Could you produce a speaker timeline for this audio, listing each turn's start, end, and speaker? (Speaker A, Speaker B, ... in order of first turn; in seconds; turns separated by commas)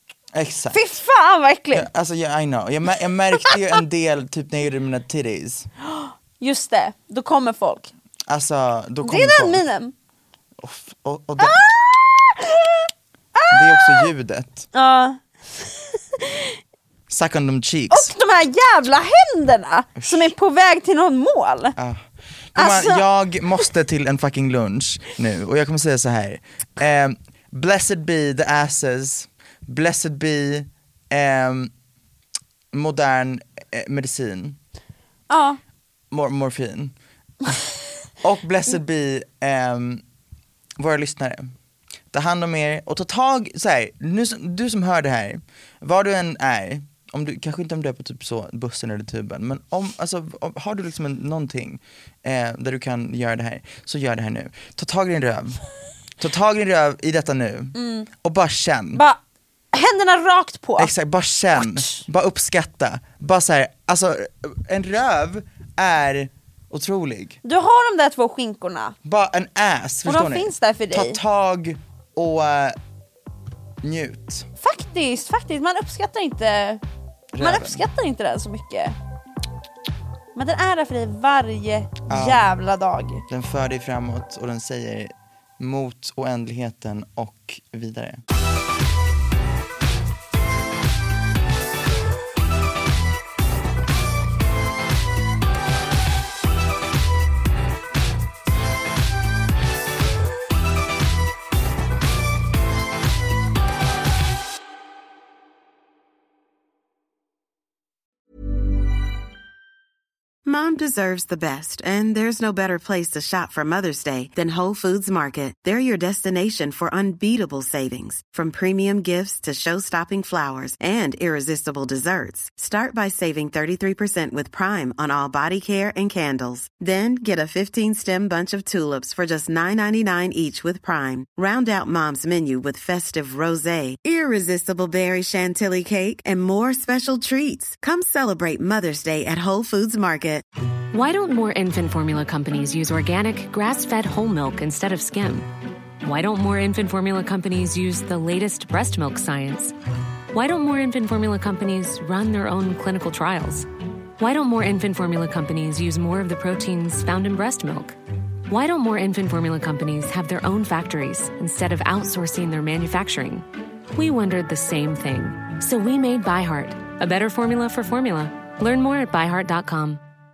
Speaker A: 0.3-0.8, Speaker B: 0.7-1.9, Speaker A: 1.7-5.7, Speaker B: 5.8-7.9, Speaker A: 8.2-9.6, Speaker B: 9.0-9.9, Speaker A: 10.6-11.7, Speaker B: 11.4-14.1, Speaker A: 13.5-14.7, Speaker B: 14.7-16.6, Speaker A: 17.1-18.1, Speaker B: 17.9-21.7, Speaker A: 20.0-20.3, Speaker A: 21.8-31.7, Speaker B: 22.6-23.0, Speaker A: 32.7-34.6, Speaker B: 35.3-35.6, Speaker A: 36.1-36.9, Speaker A: 38.2-40.0, Speaker A: 40.8-41.5, Speaker A: 42.1-55.6, Speaker A: 56.2-59.0, Speaker B: 57.7-58.1, Speaker B: 59.7-60.9, Speaker A: 60.8-67.4, Speaker B: 61.5-62.0, Speaker B: 67.4-68.9, Speaker A: 69.0-72.8, Speaker B: 70.0-71.2, Speaker A: 73.8-74.5, Speaker B: 74.6-76.8, Speaker A: 77.3-77.8, Speaker B: 77.4-78.9, Speaker B: 80.3-83.2, Speaker A: 82.1-82.5, Speaker A: 83.3-88.2, Speaker C: 110.4-140.4, Speaker D: 140.9-145.5, Speaker D: 146.0-149.7, Speaker D: 150.3-153.7, Speaker D: 154.2-158.0, Speaker D: 158.5-170.0